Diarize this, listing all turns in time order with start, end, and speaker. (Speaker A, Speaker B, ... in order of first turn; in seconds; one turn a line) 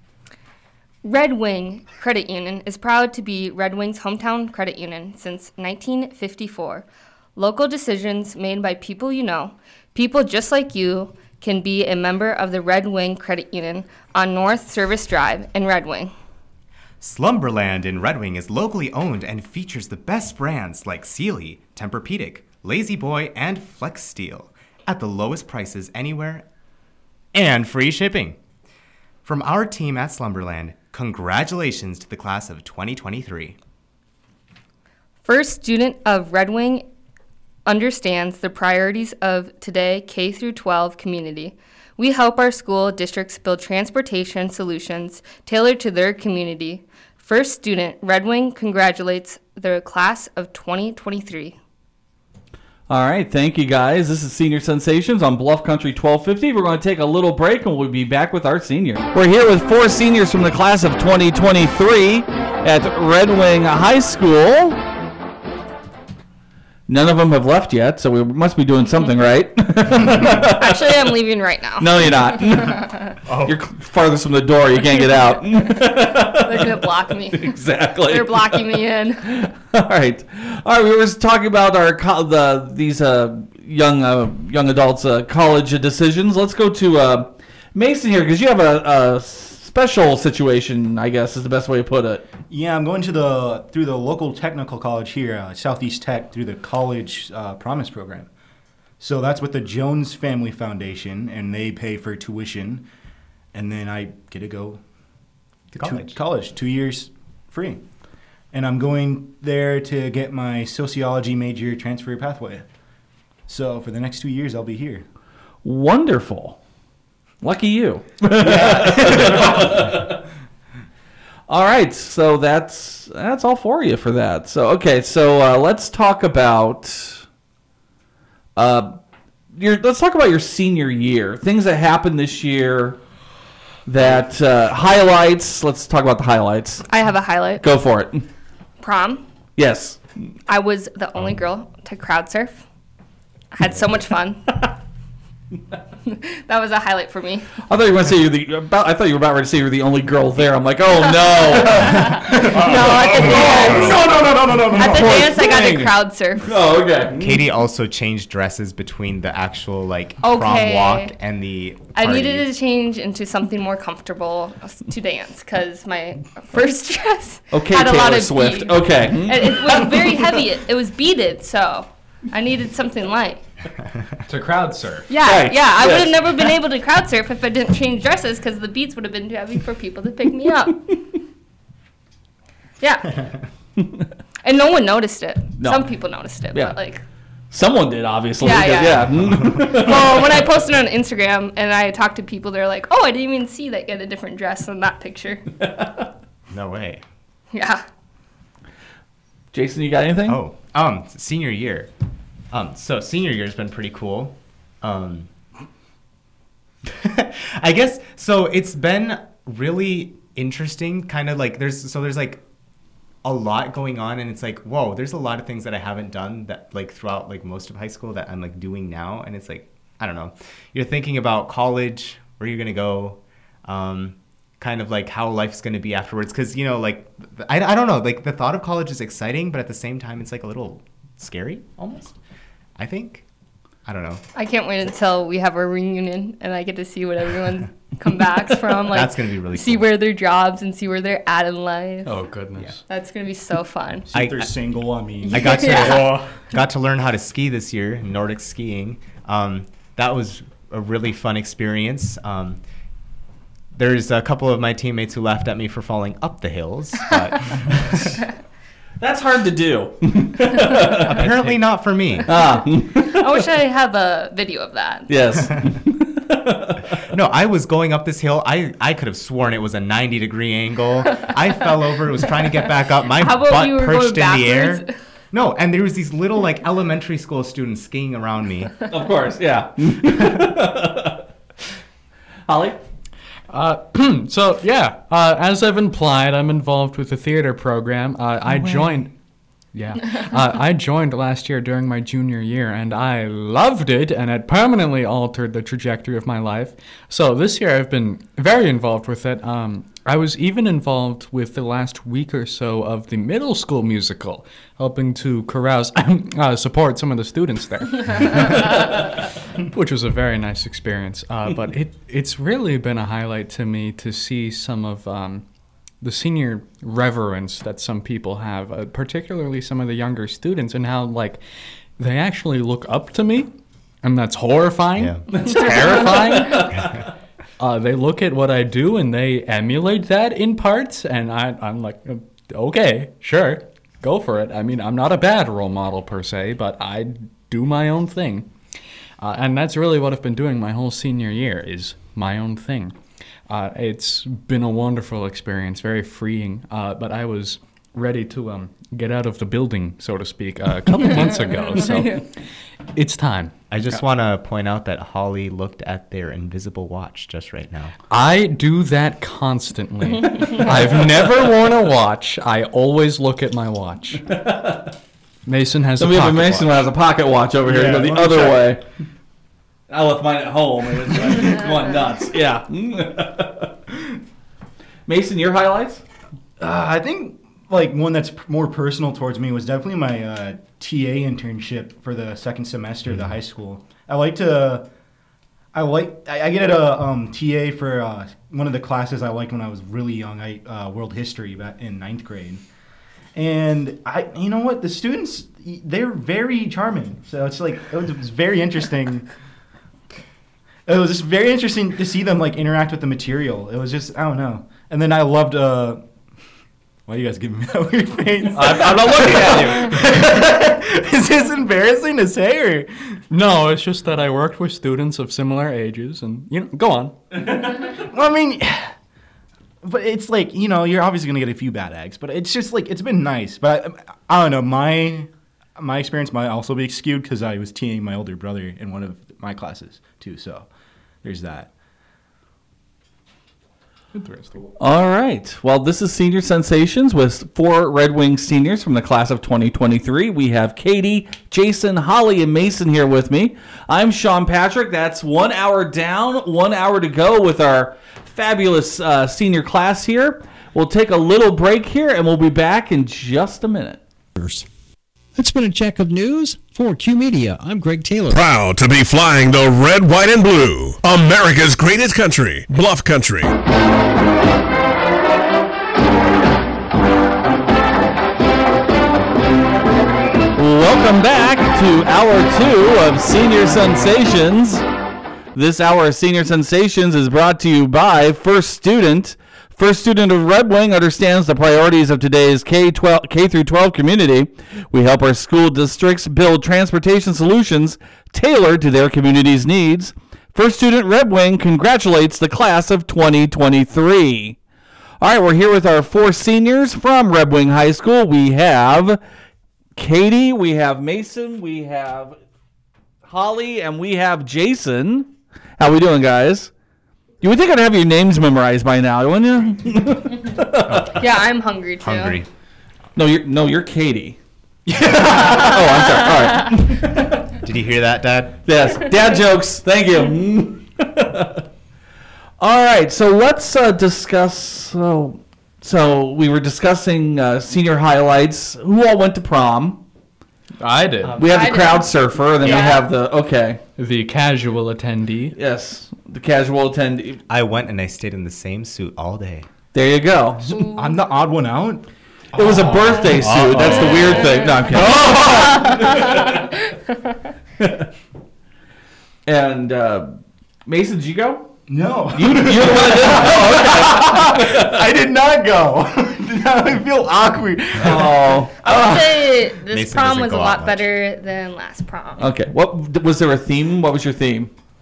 Speaker A: 1.0-16.1
Speaker B: 17.0-26.5
Speaker B: 27.3-28.4
Speaker B: 29.2-33.6
Speaker A: 35.2-36.9
Speaker A: 37.7-51.6
Speaker C: 52.9-64.8
Speaker C: 66.9-70.8
Speaker A: 70.2-73.1
Speaker C: 71.8-92.3
Speaker A: 74.9-79.3
Speaker D: 92.5-98.3
Speaker D: 99.0-102.9
Speaker D: 103.5-104.8
Speaker B: 105.7-106.2
Speaker D: 105.8-107.8
Speaker D: 108.5-112.7
Speaker D: 113.5-115.0
Speaker C: 115.6-116.6
Speaker C: 117.4-120.2
Speaker D: 118.3-119.9
Speaker C: 121.5-127.2
Speaker C: 128.6-129.0
Speaker C: 129.6-133.0
Speaker C: 133.9-136.9
Speaker A: 136.9-137.7
Speaker C: 137.6-138.3
Speaker A: 138.8-139.2
Speaker C: 139.6-140.0
Speaker A: 140.5-142.6
Speaker A: 143.5-144.7
Speaker A: 146.1-147.5
Speaker C: 147.7-152.4
Speaker A: 150.9-156.8
Speaker D: 152.1-155.8
Speaker C: 155.0-155.9
Speaker C: 156.4-157.5
Speaker B: 157.2-162.5
Speaker A: 160.2-161.1
Speaker A: 161.9-173.4
Speaker C: 167.5-169.9
Speaker E: 174.3-175.1
Speaker A: 175.1-181.0
Speaker C: 175.2-176.6
Speaker A: 182.8-183.3
Speaker A: 184.4-187.0
Speaker C: 185.6-185.9
Speaker C: 187.5-190.3
Speaker A: 188.4-195.4
Speaker B: 196.5-197.0
Speaker A: 197.5-197.8
Speaker C: 199.5-200.4
Speaker B: 200.3-201.9
Speaker B: 202.5-205.3
Speaker B: 206.8-212.4
Speaker B: 213.2-232.2
Speaker B: 232.8-233.2
Speaker B: 233.9-234.2
Speaker A: 234.3-242.2
Speaker B: 238.8-239.9
Speaker E: 242.1-242.8
Speaker A: 242.9-244.1
Speaker D: 244.1-245.6
Speaker B: 244.1-244.5
Speaker A: 245.2-246.1
Speaker B: 245.3-252.6
Speaker E: 245.7-246.3
Speaker B: 253.8-258.2
Speaker C: 259.0-261.1
Speaker B: 261.1-262.3
Speaker C: 262.3-263.2
Speaker A: 262.3-265.1
Speaker C: 265.1-266.9
Speaker B: 267.1-278.8
Speaker A: 273.1-274.9
Speaker C: 278.9-281.2
Speaker C: 282.5-282.8
Speaker E: 283.5-289.1
Speaker E: 289.7-315.4
Speaker E: 316.0-321.4
Speaker E: 322.0-323.5
Speaker E: 324.0-326.9
Speaker B: 325.0-325.2
Speaker C: 325.3-326.9
Speaker E: 327.6-338.5
Speaker E: 339.2-343.0
Speaker E: 343.5-352.3
Speaker A: 351.3-352.2
Speaker E: 352.9-353.5
Speaker B: 353.7-357.9
Speaker E: 358.1-364.2
Speaker C: 364.3-364.9
Speaker E: 365.5-366.9
Speaker C: 366.0-368.8
Speaker D: 367.6-368.8
Speaker C: 369.9-373.7
Speaker C: 375.1-376.0
Speaker D: 376.6-384.9
Speaker D: 385.7-392.6
Speaker D: 393.4-399.3
Speaker D: 400.9-406.1
Speaker D: 407.1-413.2
Speaker E: 408.5-410.1
Speaker E: 413.3-417.1
Speaker D: 418.0-418.9
Speaker D: 419.8-430.7
Speaker D: 431.2-431.7
Speaker E: 434.1-434.7
Speaker C: 434.8-454.0
Speaker F: 454.4-454.7
Speaker F: 455.4-458.4
Speaker G: 458.3-463.5
Speaker C: 470.6-474.8
Speaker C: 475.6-494.6
Speaker C: 495.2-499.2
Speaker C: 500.0-502.4
Speaker C: 503.2-506.7
Speaker C: 507.4-511.1
Speaker B: 510.9-511.2
Speaker A: 511.1-512.4
Speaker B: 512.0-512.5
Speaker C: 513.2-514.4
Speaker D: 514.9-515.8
Speaker C: 515.0-517.4
Speaker B: 517.6-518.6
Speaker C: 518.6-521.6
Speaker C: 522.6-530.0
Speaker E: 530.8-531.4
Speaker B: 531.2-531.9
Speaker C: 531.4-533.8
Speaker A: 531.5-533.1
Speaker E: 534.0-535.6
Speaker C: 535.5-537.4
Speaker B: 537.5-539.7
Speaker C: 539.9-540.6
Speaker A: 540.7-541.2
Speaker D: 540.7-542.0
Speaker C: 542.5-545.3
Speaker D: 542.6-544.2
Speaker B: 543.7-544.1
Speaker A: 544.3-546.7
Speaker D: 545.0-546.0
Speaker C: 546.0-546.6
Speaker C: 547.8-548.1
Speaker C: 549.5-550.3
Speaker C: 550.9-551.7
Speaker D: 551.9-559.5
Speaker C: 552.3-555.0
Speaker C: 558.0-558.7
Speaker A: 558.8-562.5
Speaker B: 559.9-561.0
Speaker C: 562.4-564.7